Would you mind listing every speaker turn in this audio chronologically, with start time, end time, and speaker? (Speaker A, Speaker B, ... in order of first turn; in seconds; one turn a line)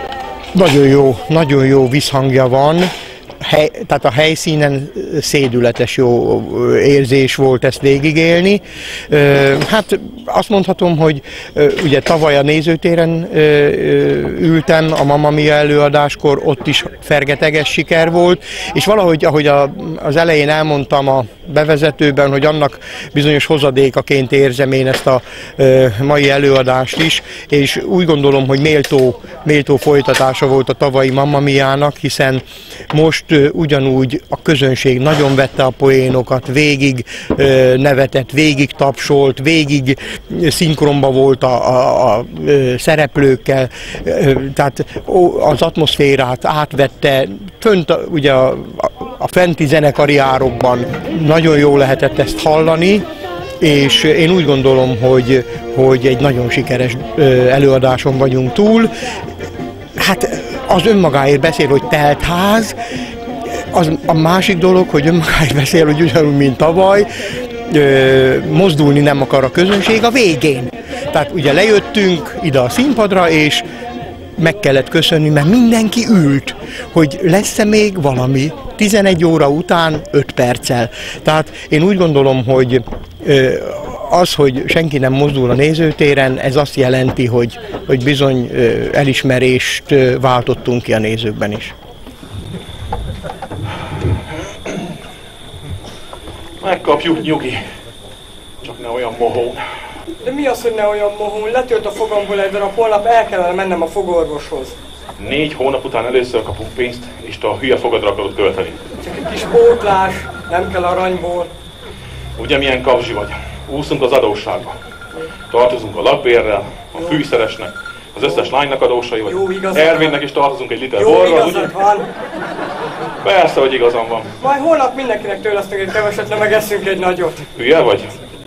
Speaker A: 0.6-53.1
Speaker A: 53.6-58.9
Speaker A: 60.0-62.8
Speaker A: 63.6-67.1
Speaker A: 67.7-73.6
Speaker A: 74.4-91.7
Speaker B: 96.6-97.6
Speaker B: 98.6-99.6
Speaker C: 100.2-104.8
Speaker B: 105.2-108.8
Speaker C: 109.0-111.5
Speaker B: 112.4-114.8
Speaker B: 115.5-121.7
Speaker C: 119.3-120.2
Speaker C: 121.0-122.1
Speaker B: 123.2-124.3
Speaker C: 124.4-127.5
Speaker B: 127.6-128.2